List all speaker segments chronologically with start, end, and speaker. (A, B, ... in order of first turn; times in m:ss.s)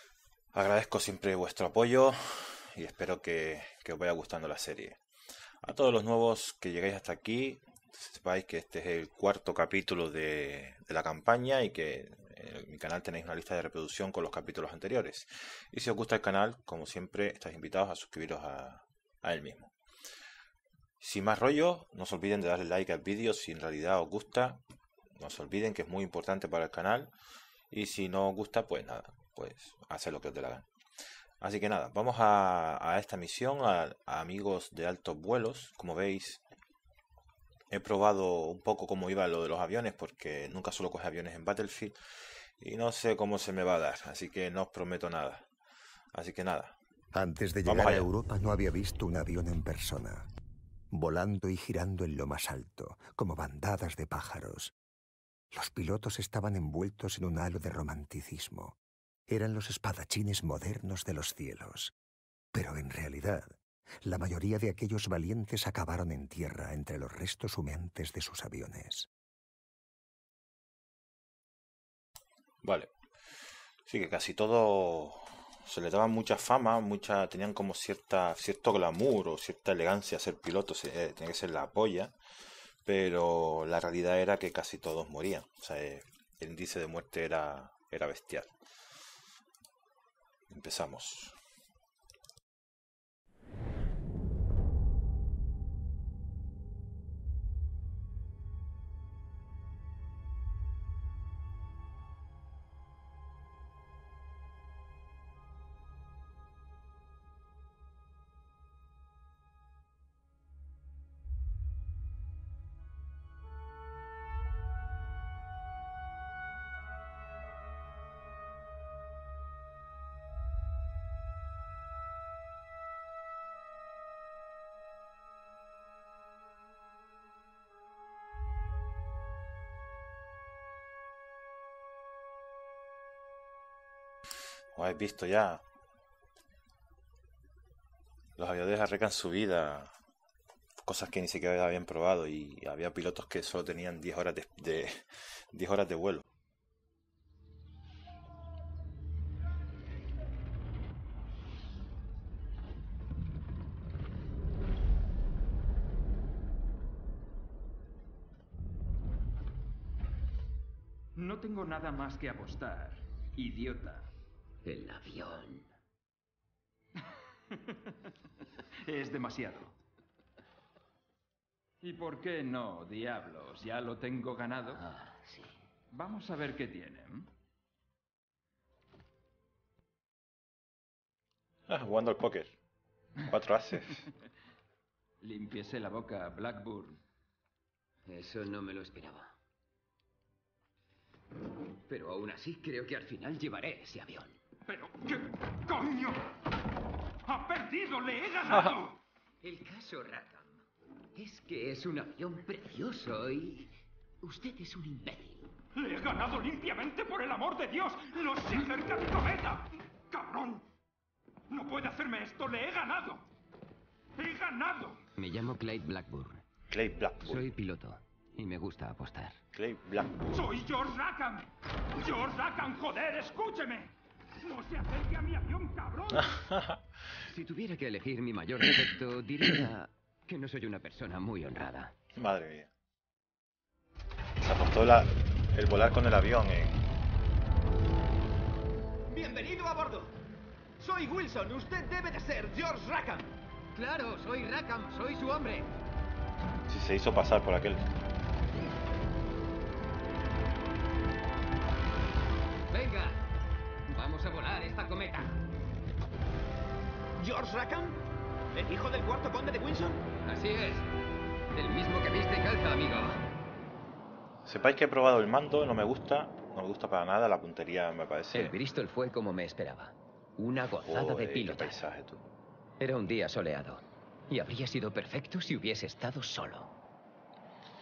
0:00.5-0:05.0 A
0:05.6-0:19.7 A
0:21.0-0:24.6 A
0:25.2-0:27.1 A
0:27.7-0:30.6 A
0:31.4-0:36.4 A
0:37.7-0:42.0 A
0:42.6-0:45.4 A
0:46.1-0:46.7 A
0:47.1-0:50.3 B
0:47.6-0:48.0 A
0:50.9-0:54.7 B
0:55.5-1:01.9 B
1:02.5-1:09.1 B
1:12.6-1:12.9 A
1:13.9-1:22.1 A
1:22.8-1:28.5 A
1:30.5-1:31.3 A
2:14.7-2:15.6 A
2:18.4-2:19.9 A
2:20.8-2:26.2 A
2:41.2-2:44.1 C
2:44.6-2:45.7 D
2:47.5-2:47.9 C
2:48.8-2:49.7 C
2:51.8-2:54.9 C
2:54.8-2:55.5 D
2:55.9-2:57.3 C
3:01.7-3:02.5 A
3:03.2-3:04.1 A
3:05.2-3:07.0 C
3:08.1-3:09.3 D
3:11.9-3:14.4 D
3:14.7-3:16.2 C
3:17.2-3:19.0 C
3:19.4-3:20.6 D
3:21.1-3:25.5 D
3:25.7-3:30.6 C
3:31.5-3:33.2 C
3:34.2-3:35.1 C
3:35.2-3:36.4 D
3:36.7-3:37.5 A
3:37.2-3:39.4 D
3:39.5-3:40.5 A
3:40.3-3:46.4 C
3:46.1-3:46.8 A
3:47.3-3:51.9 D
3:52.2-3:52.7 A
3:54.4-3:56.8 A
3:59.1-4:00.2 E
4:00.8-4:03.4 E
4:03.7-4:05.7 F
4:06.7-4:07.8 A
4:12.7-4:13.2 F
4:13.9-4:15.3 F
4:17.2-4:18.0 E
4:18.5-4:20.0 E
4:20.3-4:20.8 F
4:21.5-4:22.2 D
4:22.0-4:23.2 F
4:24.4-4:28.6 A
4:28.3-4:31.8 D
4:30.8-4:32.2 A
4:32.8-4:36.7 D